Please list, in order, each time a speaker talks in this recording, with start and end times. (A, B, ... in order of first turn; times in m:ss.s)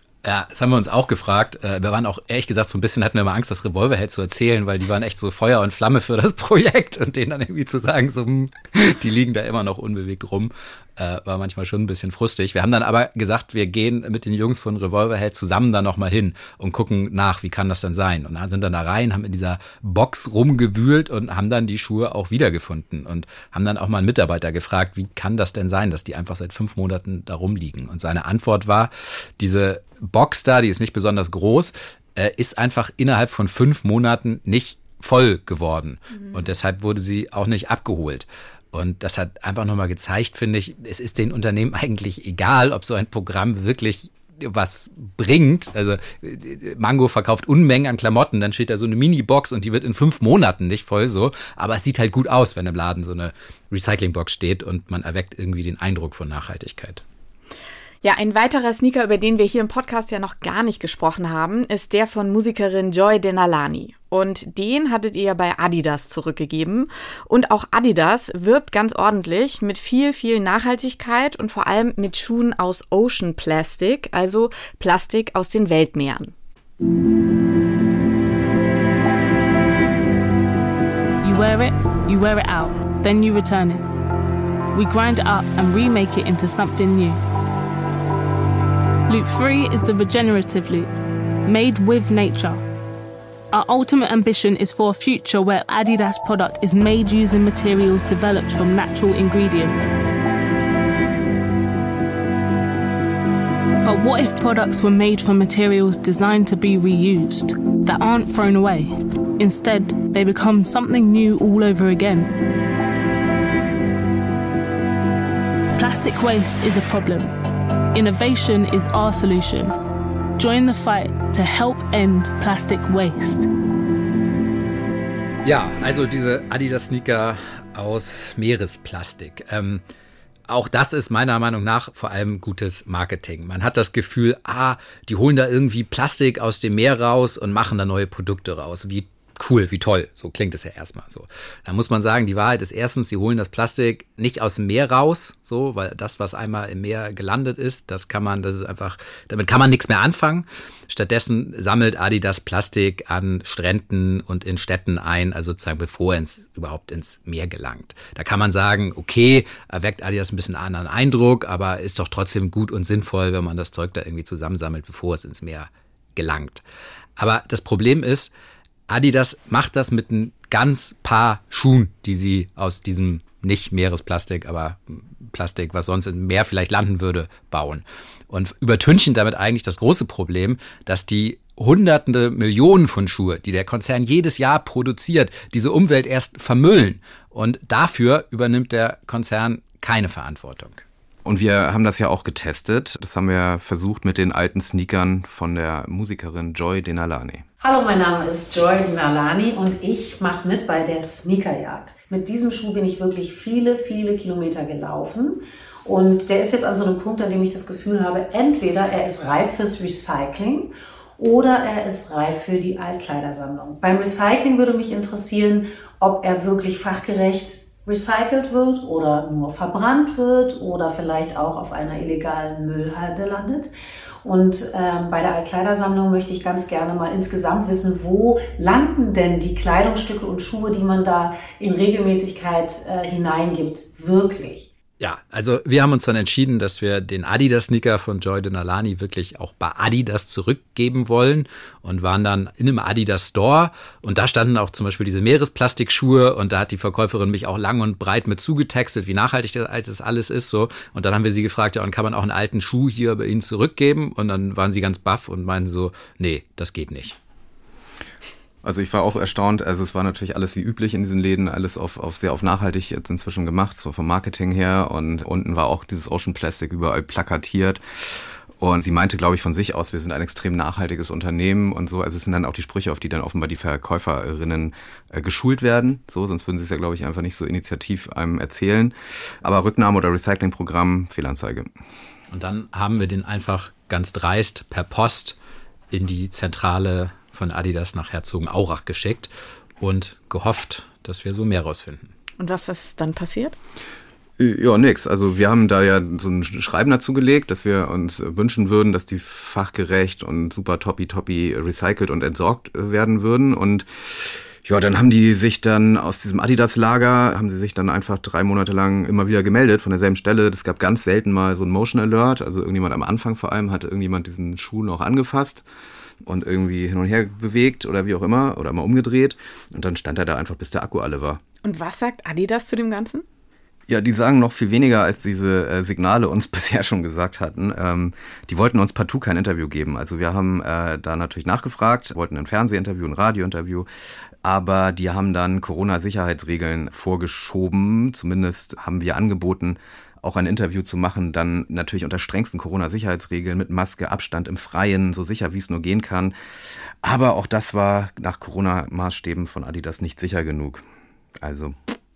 0:00.2-0:57.0 A
0:58.0-1:16.3 B
1:21.2-1:23.8 C
1:24.7-1:27.2 C
1:29.1-1:30.9 C
1:31.4-1:32.6 C
1:33.5-1:39.9 C
1:43.8-1:52.3 C
1:55.8-1:57.3 C
1:57.9-1:59.8 C
2:00.4-2:03.5 C
2:05.4-2:09.8 A
2:10.5-2:46.6 A
2:47.2-2:48.3 A
2:48.9-3:10.8 A
3:11.2-3:17.4 D
3:17.6-3:43.7 E
3:44.2-3:54.7 E
3:55.0-4:17.2 A
4:18.6-4:41.7 D
4:42.3-4:45.4 A
4:45.9-4:52.1 A
4:52.4-4:53.5 B
4:54.4-5:15.6 D
5:16.2-5:21.4 D
5:21.6-5:23.2 B
5:23.9-5:33.9 D
5:34.4-5:46.3 D
5:47.0-5:50.8 D
5:51.4-5:51.8 D